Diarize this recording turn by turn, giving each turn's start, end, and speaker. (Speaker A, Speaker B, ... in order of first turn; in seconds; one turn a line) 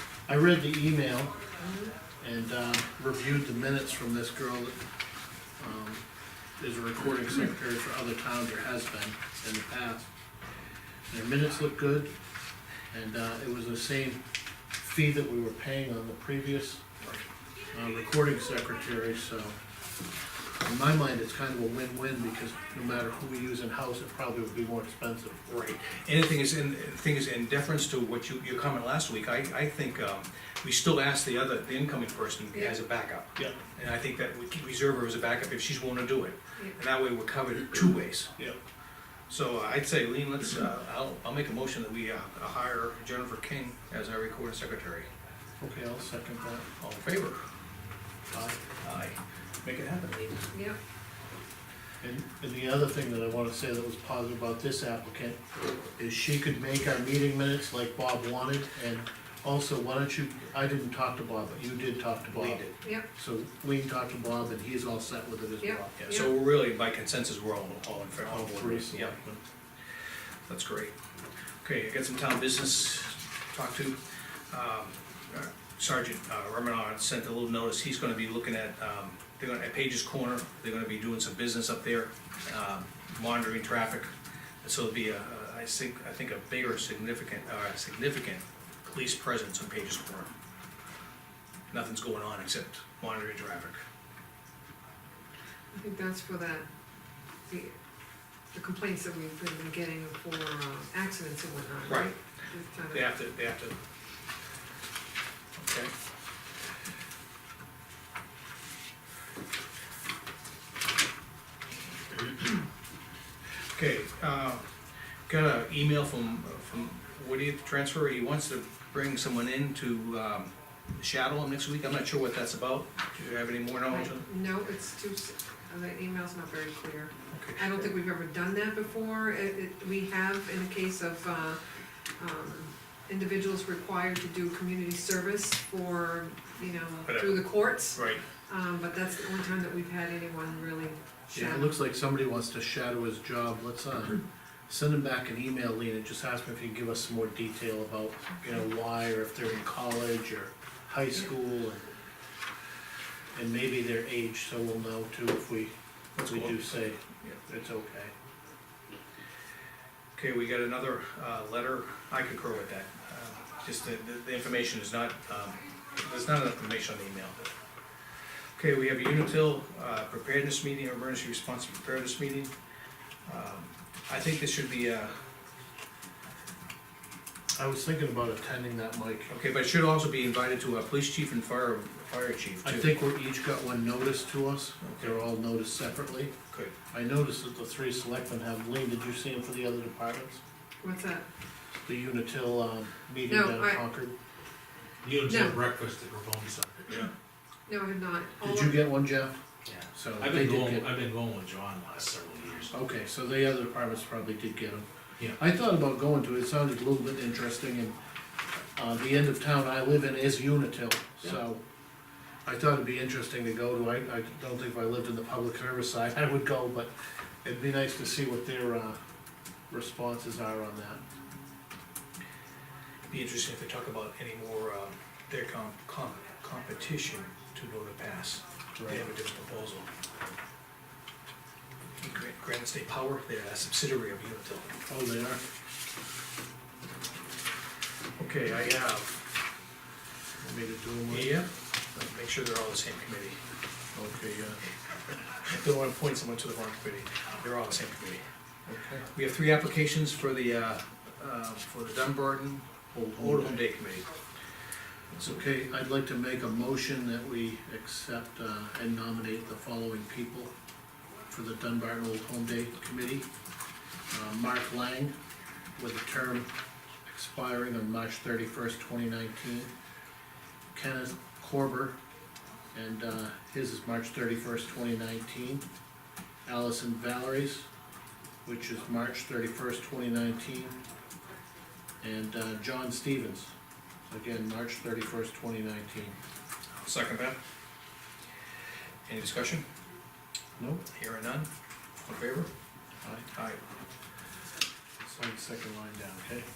Speaker A: 0.3-1.4
Speaker B: 1.6-1.9
Speaker A: 2.2-4.8
Speaker A: 5.6-6.0
Speaker A: 6.6-10.1
Speaker A: 11.1-12.1
Speaker A: 12.9-14.2
Speaker A: 14.8-16.8
Speaker A: 17.7-19.6
Speaker A: 20.6-25.4
Speaker C: 25.5-38.4
Speaker B: 32.5-32.8
Speaker C: 39.3-45.1
Speaker A: 45.6-46.7
Speaker C: 46.8-47.4
Speaker C: 48.6-50.4
Speaker B: 50.5-50.8
Speaker A: 52.0-55.4
Speaker A: 56.0-62.6
Speaker C: 62.3-62.8
Speaker B: 62.8-63.1
Speaker A: 63.1-66.1
Speaker B: 65.6-66.3
Speaker C: 66.0-69.2
Speaker A: 68.2-69.4
Speaker C: 70.5-70.9
Speaker C: 71.6-74.0
Speaker C: 74.5-84.1
Speaker C: 84.6-90.3
Speaker C: 91.7-93.8
Speaker B: 95.7-96.7
Speaker B: 97.5-97.7
Speaker B: 98.5-103.1
Speaker C: 101.9-102.1
Speaker C: 102.9-103.8
Speaker C: 105.6-105.9
Speaker C: 113.7-114.7
Speaker C: 115.3-124.3
Speaker B: 123.9-131.6
Speaker C: 127.3-127.9
Speaker B: 132.2-141.7
Speaker C: 137.1-138.2
Speaker A: 141.3-151.8
Speaker A: 153.3-158.1
Speaker C: 156.2-157.4
Speaker C: 160.2-167.5
Speaker C: 168.6-172.5
Speaker C: 173.3-175.2
Speaker A: 177.6-179.3
Speaker C: 179.3-182.9
Speaker A: 182.6-186.3
Speaker C: 184.8-185.2
Speaker A: 186.9-190.4
Speaker B: 190.8-191.3
Speaker A: 191.9-194.1
Speaker B: 193.3-193.8
Speaker D: 195.0-197.1
Speaker B: 195.2-195.6
Speaker B: 197.7-198.9
Speaker A: 198.4-199.4
Speaker D: 199.7-202.7
Speaker A: 199.9-200.9
Speaker A: 202.7-208.0
Speaker A: 208.8-211.6
Speaker A: 212.4-216.9
Speaker A: 217.4-219.0
Speaker A: 219.7-221.0
Speaker C: 223.1-229.9
Speaker A: 228.8-229.1
Speaker C: 232.0-234.7
Speaker A: 234.9-235.4
Speaker C: 238.2-239.2
Speaker A: 240.4-241.4
Speaker C: 241.1-243.4
Speaker A: 243.9-244.6
Speaker C: 245.4-248.2
Speaker A: 248.7-249.1
Speaker C: 249.1-254.1
Speaker A: 252.9-253.6
Speaker A: 255.2-260.5
Speaker A: 261.3-263.3
Speaker A: 264.1-265.1
Speaker A: 265.8-266.5
Speaker A: 267.1-269.7
Speaker A: 270.7-272.0
Speaker A: 272.7-275.7
Speaker A: 276.5-277.7
Speaker A: 278.4-280.8
Speaker A: 282.0-283.5
Speaker A: 284.1-286.1
Speaker C: 286.8-287.4
Speaker C: 289.1-289.6
Speaker A: 290.6-290.8
Speaker C: 290.9-291.5
Speaker C: 292.1-292.5
Speaker C: 293.3-293.6
Speaker A: 295.0-296.5